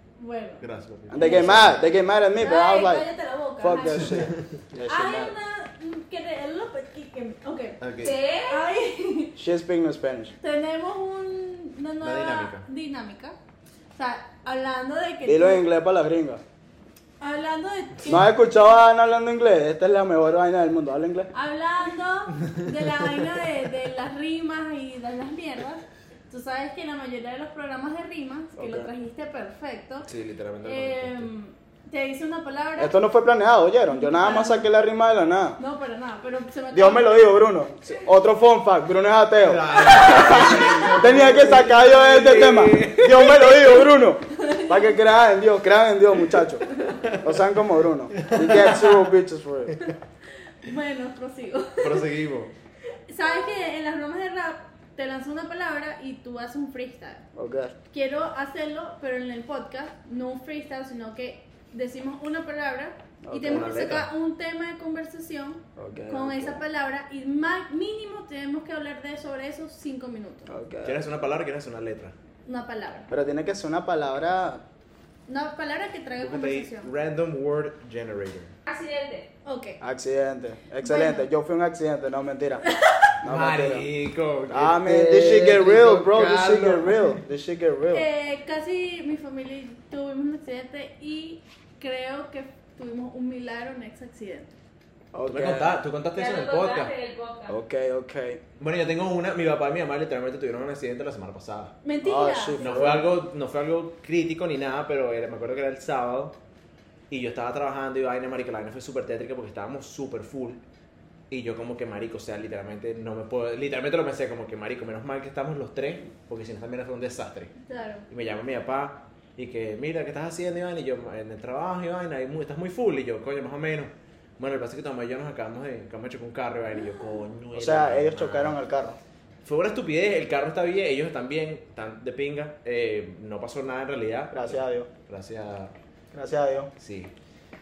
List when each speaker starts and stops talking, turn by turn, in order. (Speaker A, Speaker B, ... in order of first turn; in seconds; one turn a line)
Speaker A: 0.2-0.7
Speaker B: 0.6-1.9
Speaker C: 1.1-3.1
Speaker A: 1.2-1.6
Speaker A: 2.4-4.3
Speaker C: 3.6-5.3
Speaker A: 4.9-9.4
Speaker B: 7.8-8.2
Speaker D: 8.0-8.6
Speaker C: 9.4-10.3
Speaker A: 10.4-13.4
Speaker B: 12.0-12.7
Speaker A: 13.9-15.6
Speaker C: 15.2-16.4
Speaker A: 17.2-18.4
Speaker C: 18.1-21.3
Speaker A: 21.3-30.1
Speaker C: 28.6-28.9
Speaker B: 30.1-31.3
Speaker A: 30.6-33.0
Speaker C: 32.8-35.6
Speaker A: 33.9-34.7
Speaker A: 35.6-37.2
Speaker C: 36.7-49.8
Speaker B: 39.4-43.4
Speaker A: 39.8-40.9
Speaker A: 43.4-43.7
Speaker A: 44.4-44.8
Speaker B: 48.2-48.9
Speaker A: 50.6-52.1
Speaker B: 51.8-52.5
Speaker A: 53.1-57.2
Speaker C: 57.4-57.8
Speaker A: 57.9-70.5
Speaker C: 63.2-63.8
Speaker B: 63.4-64.1
Speaker C: 65.8-66.6
Speaker C: 70.5-71.1
Speaker B: 70.8-72.2
Speaker A: 72.5-73.1
Speaker C: 73.1-74.6
Speaker A: 75.3-76.9
Speaker B: 76.2-78.5
Speaker D: 78.7-79.3
Speaker A: 79.5-79.8
Speaker C: 79.8-82.7
Speaker A: 80.8-81.3
Speaker A: 82.7-83.1
Speaker C: 83.2-83.9
Speaker B: 83.2-87.2
Speaker C: 84.5-88.1
Speaker A: 87.9-94.5
Speaker C: 95.1-95.8
Speaker B: 95.3-96.9
Speaker D: 96.1-97.6
Speaker C: 97.5-98.4
Speaker B: 98.6-101.8
Speaker A: 101.8-103.0
Speaker C: 102.0-103.1
Speaker B: 102.6-106.4
Speaker B: 107.1-110.6
Speaker B: 111.3-117.5
Speaker A: 117.6-118.1
Speaker B: 118.1-128.6
Speaker C: 127.5-129.0
Speaker B: 129.4-135.7
Speaker C: 134.3-134.9
Speaker C: 136.1-136.7
Speaker B: 136.8-137.1